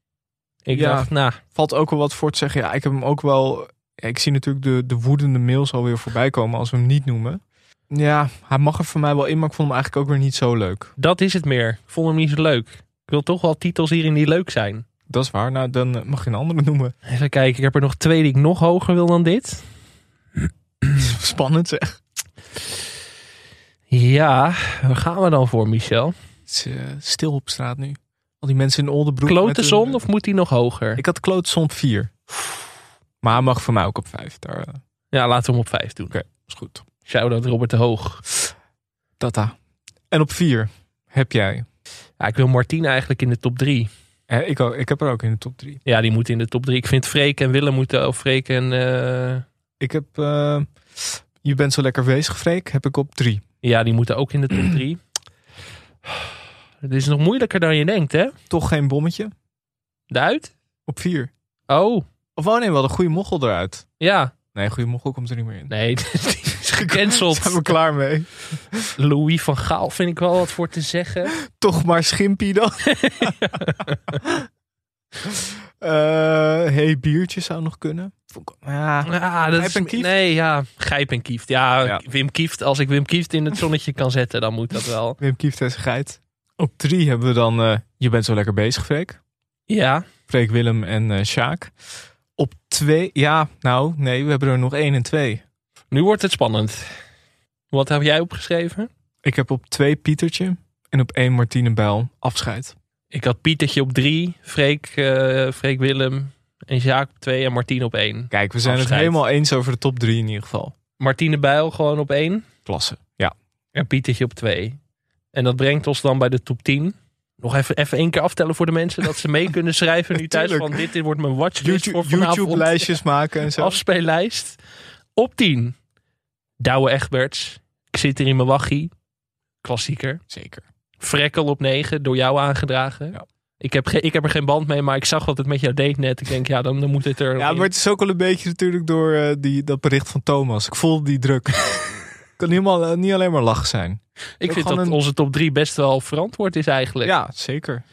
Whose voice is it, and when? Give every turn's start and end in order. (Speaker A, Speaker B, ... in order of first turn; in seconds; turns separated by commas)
Speaker A: 0.6-1.4, Speaker B: 0.7-10.9, Speaker A: 11.0-14.8, Speaker B: 15.1-16.9, Speaker A: 17.1-19.7, Speaker B: 21.0-22.0, Speaker A: 23.9-26.1, Speaker B: 26.5-30.0, Speaker A: 29.2-31.0, Speaker B: 31.0-32.1, Speaker B: 33.2-34.8, Speaker A: 35.1-36.2, Speaker B: 36.1-36.8, Speaker A: 37.0-38.2, Speaker B: 39.2-39.5, Speaker B: 40.1-41.6, Speaker A: 42.2-43.9, Speaker B: 44.3-45.8, Speaker A: 45.8-49.4, Speaker B: 49.8-53.4, Speaker A: 53.6-55.0, Speaker A: 56.8-58.3, Speaker B: 58.5-59.3, Speaker A: 60.1-60.5, Speaker B: 60.9-61.3, Speaker A: 61.7-62.0, Speaker B: 62.4-63.9, Speaker A: 64.0-64.3, Speaker B: 64.5-65.7, Speaker A: 65.7-67.7, Speaker B: 66.7-68.9, Speaker A: 69.0-71.3, Speaker B: 71.5-73.3, Speaker A: 73.0-74.2, Speaker B: 75.2-80.1, Speaker A: 79.0-85.2, Speaker B: 85.2-89.2, Speaker A: 89.7-90.0, Speaker B: 90.3-91.7, Speaker B: 92.4-95.4, Speaker A: 95.9-96.9, Speaker A: 97.7-98.9, Speaker B: 99.2-102.7, Speaker A: 103.1-109.1, Speaker B: 108.3-110.7, Speaker A: 111.0-112.4, Speaker B: 112.7-113.3, Speaker A: 113.7-114.8, Speaker A: 115.3-123.0, Speaker B: 120.1-120.7, Speaker B: 121.6-123.8, Speaker A: 123.5-124.6, Speaker A: 125.2-125.8, Speaker A: 126.6-128.9, Speaker A: 129.6-130.2, Speaker B: 130.3-130.6, Speaker A: 131.0-137.7, Speaker B: 137.4-145.0, Speaker A: 144.4-147.1, Speaker B: 147.0-147.8